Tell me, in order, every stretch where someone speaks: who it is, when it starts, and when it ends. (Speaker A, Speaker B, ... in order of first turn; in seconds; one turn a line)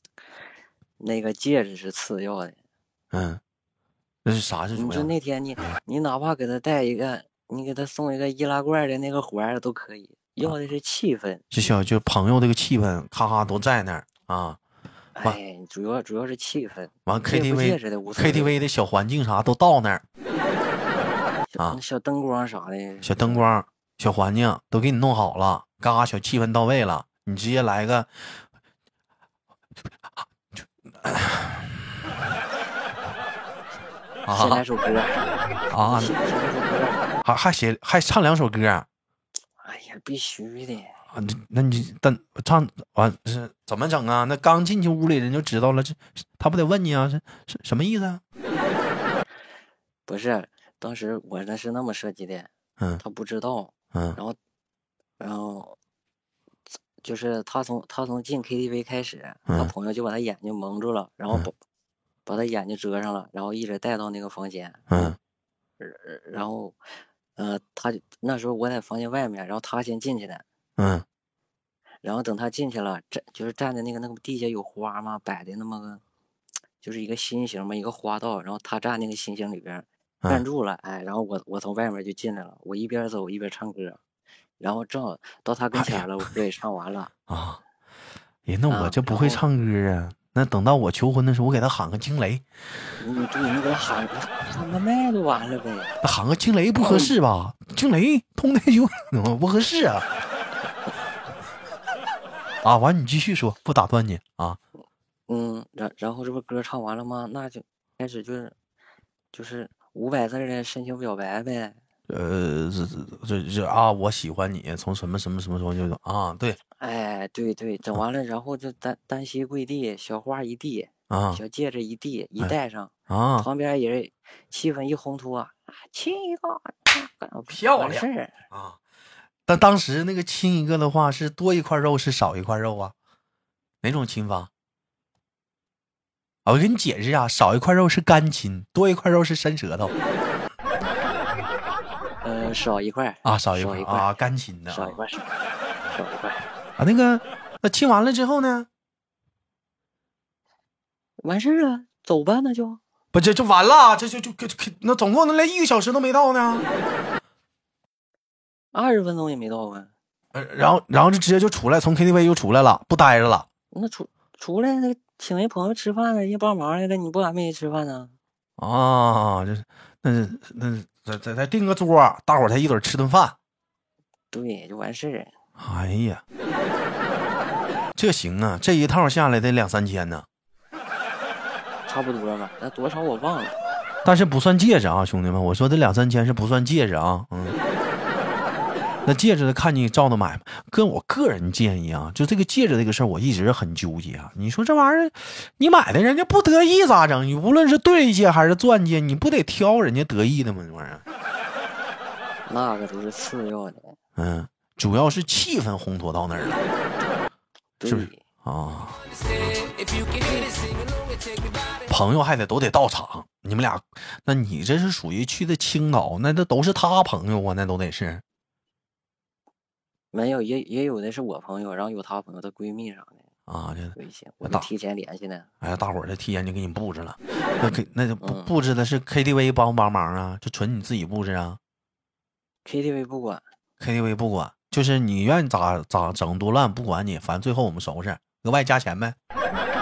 Speaker A: 1.0-2.6
Speaker B: 3.1-3.4
Speaker B: 4.2-5.8
Speaker A: 4.8-11.4
Speaker B: 11.5-14.6
Speaker A: 15.2-18.6
Speaker B: 17.1-20.0
Speaker A: 21.5-23.5
Speaker B: 23.0-28.4
Speaker B: 30.5-31.9
Speaker B: 34.2-34.6
Speaker A: 34.3-35.2
Speaker B: 35.7-36.1
Speaker A: 35.7-37.0
Speaker B: 37.2-38.9
Speaker A: 39.6-41.0
Speaker B: 41.1-48.2
Speaker A: 50.1-54.4
Speaker B: 53.9-54.2
Speaker A: 55.2-55.8
Speaker A: 57.0-61.5
Speaker A: 62.3-65.1
Speaker B: 64.9-65.2
Speaker A: 65.8-66.8
Speaker A: 67.4-70.4
Speaker B: 70.8-71.0
Speaker A: 72.0-76.0
Speaker A: 76.8-84.0
Speaker A: 84.6-87.1
Speaker B: 87.3-87.6
Speaker B: 88.5-92.4
Speaker A: 88.7-89.4
Speaker A: 93.0-96.0
Speaker B: 96.0-100.2
Speaker A: 96.8-97.1
Speaker B: 102.6-104.6
Speaker A: 105.3-108.5
Speaker A: 109.3-111.8
Speaker B: 112.1-116.6
Speaker A: 116.8-128.3
Speaker B: 121.1-121.4
Speaker B: 123.1-123.5
Speaker B: 127.5-128.8
Speaker B: 129.5-132.9
Speaker B: 133.8-134.5
Speaker B: 136.4-139.9
Speaker A: 142.2-144.2
Speaker B: 143.2-145.0
Speaker A: 144.7-146.5
Speaker B: 146.8-148.7
Speaker A: 151.2-152.8
Speaker B: 153.1-156.7
Speaker A: 158.7-159.9
Speaker B: 160.3-163.5
Speaker A: 163.7-168.1
Speaker B: 168.6-173.4
Speaker A: 174.3-175.3
Speaker B: 175.6-176.2
Speaker B: 178.0-180.3
Speaker A: 181.9-183.6
Speaker B: 184.1-187.6
Speaker B: 189.1-201.0
Speaker A: 202.5-204.0
Speaker B: 204.2-206.6
Speaker A: 207.8-208.2
Speaker B: 207.8-209.0
Speaker C: 209.3-211.8
Speaker B: 211.9-218.2
Speaker A: 220.1-223.2
Speaker B: 223.5-224.7
Speaker A: 224.0-225.5
Speaker B: 225.6-231.6
Speaker A: 228.2-228.5
Speaker A: 232.6-233.4
Speaker B: 233.8-239.2